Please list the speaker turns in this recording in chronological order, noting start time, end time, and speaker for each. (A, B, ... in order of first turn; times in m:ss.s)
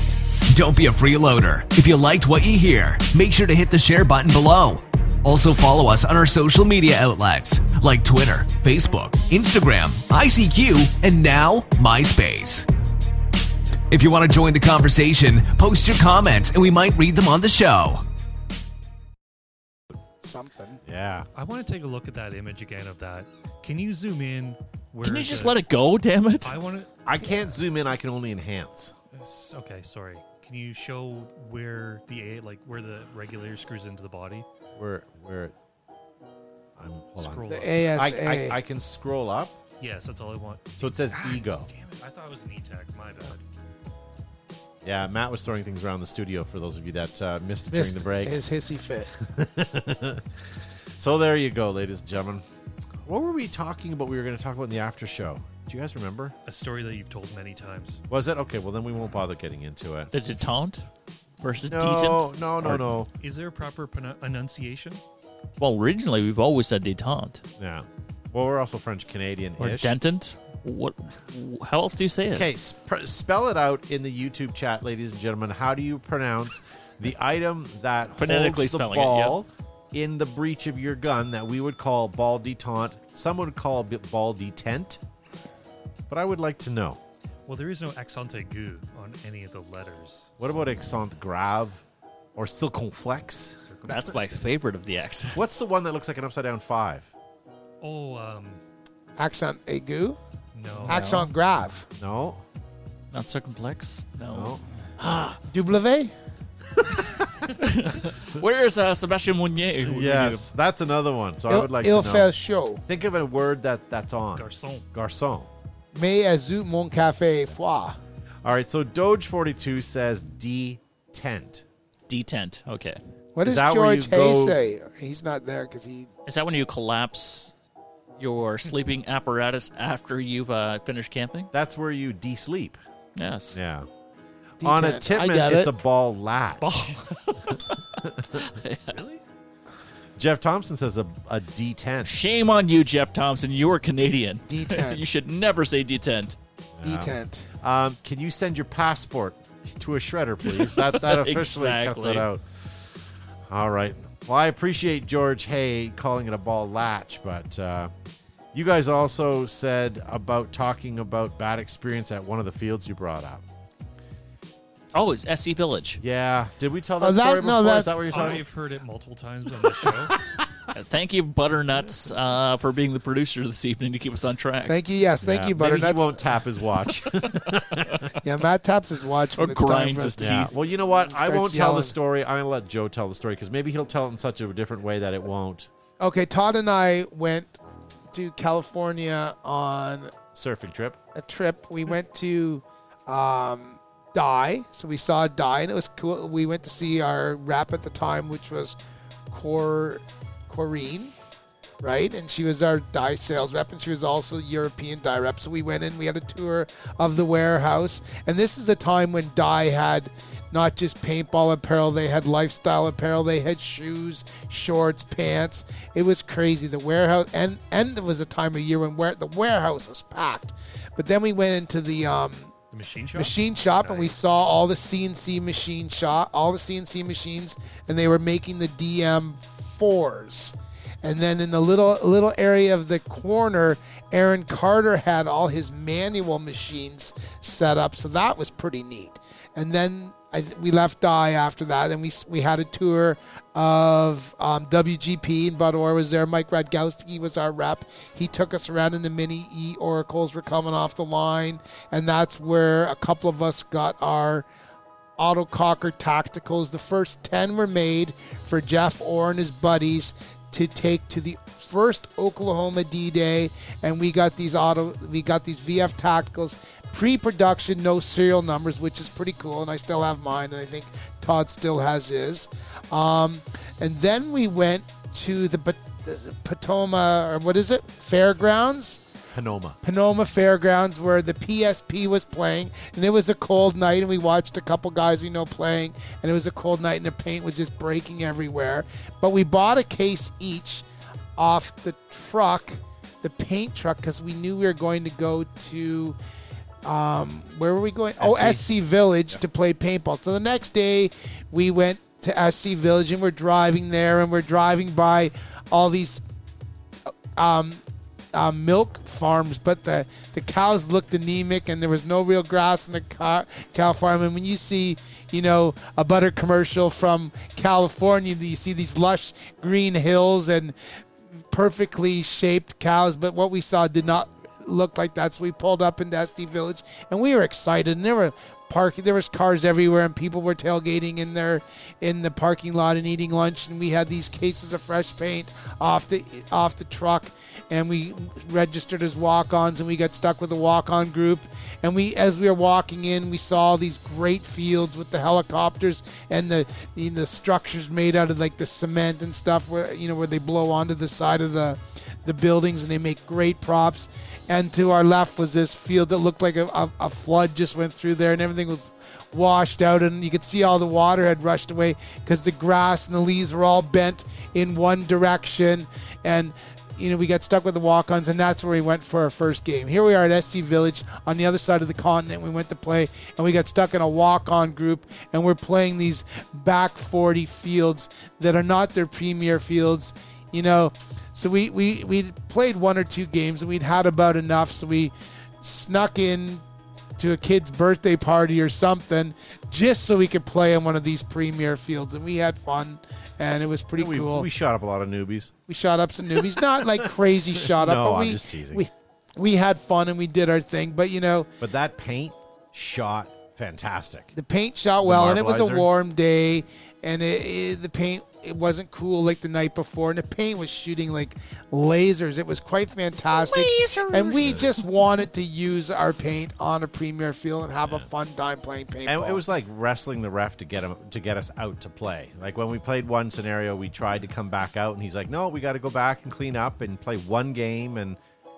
0:00.5-0:12.7 A
0:13.9-0:18.0 A
0:20.2-0:20.8 B
0:20.8-0:21.3 C
0:21.3-0:25.6 D
0:25.0-0:26.6 E
0:26.4-0:26.9 D
0:27.0-0:28.9 C
0:29.1-0:34.4 D
0:34.8-0:35.5 C
0:36.8-0:39.6 C
0:37.2-0:37.9 D
0:37.5-0:38.6 B
0:39.8-0:43.4 D
0:40.8-0:41.7 C
0:44.8-0:48.4 C
0:47.7-0:49.1 B
0:49.2-0:50.3 C
0:51.0-0:52.4 C
0:53.0-0:56.3 C
0:56.4-0:58.0 D
0:58.1-1:00.1 C
1:00.1-1:00.8 E
1:01.4-1:02.9 E
1:01.7-1:03.1 C
1:03.2-1:05.0 D
1:05.6-1:07.4 E
1:07.6-1:09.9 C
1:09.6-1:12.5 E
1:12.3-1:25.0 C
1:18.2-1:19.4 E
1:26.1-1:27.0 C
1:27.4-1:30.6 D
1:30.4-1:31.8 C
1:32.4-1:33.6 C
1:33.5-1:34.4 D
1:33.8-1:35.5 E
1:35.3-1:37.1 C
1:37.8-1:38.6 D
1:39.2-1:40.2 B
1:40.5-1:41.1 D
1:40.8-1:41.3 E
1:40.9-1:41.9 B
1:42.0-1:42.4 C
1:43.1-1:44.6 E
1:44.3-1:45.3 C
1:45.5-1:46.1 B
1:46.8-1:47.5 C
1:47.6-1:50.5 E
1:49.8-1:52.3 C
1:51.5-1:52.8 B
1:52.9-1:55.5 C
1:54.3-1:54.9 D
1:55.9-1:58.0 B
1:58.4-2:01.6 C
2:02.1-2:03.0 E
2:03.3-2:06.1 B
2:03.4-2:04.6 C
2:06.2-2:07.5 E
2:08.2-2:11.5 E
2:11.5-2:12.8 C
2:13.2-2:13.6 E
2:13.5-2:13.9 C
2:14.6-2:15.8 B
2:14.6-2:17.0 C
2:16.6-2:19.0 E
2:17.5-2:18.5 C
2:20.2-2:22.1 C
2:22.0-2:26.4 E
2:24.5-2:25.1 B
2:26.8-2:32.4 C
2:26.8-2:27.5 B
2:30.4-2:32.2 E
2:33.5-2:37.9 C
2:38.5-2:43.4 C
2:44.9-2:46.0 E
2:46.0-2:48.4 C
2:47.0-2:48.3 B
2:48.1-2:50.2 D
2:50.1-2:50.4 C
2:50.7-2:54.8 E
2:54.7-2:56.3 B
2:55.2-2:58.1 C
2:58.2-3:02.0 B
2:59.4-3:00.5 E
3:00.2-3:05.7 C
3:06.0-3:07.6 B
3:08.1-3:10.1 B
3:10.3-3:11.0 C
3:11.1-3:18.8 B
3:19.3-3:21.1 B
3:21.8-3:42.5 B
3:42.7-3:44.2 D
3:43.1-4:14.4 B
4:15.2-4:39.0 B
4:39.3-4:39.8 C
4:39.8-4:56.2 B
4:56.8-5:06.2 B
4:58.2-4:58.7 C
5:07.1-5:07.8 B
5:08.3-6:26.6 B
6:27.2-6:34.5 B
6:34.0-6:35.5 C
6:35.7-6:41.5 B
6:36.8-6:38.9 C
6:41.6-6:44.3 C
6:44.3-6:59.4 B
6:45.0-6:45.9 C
6:53.3-6:54.8 C
6:59.0-7:08.2 C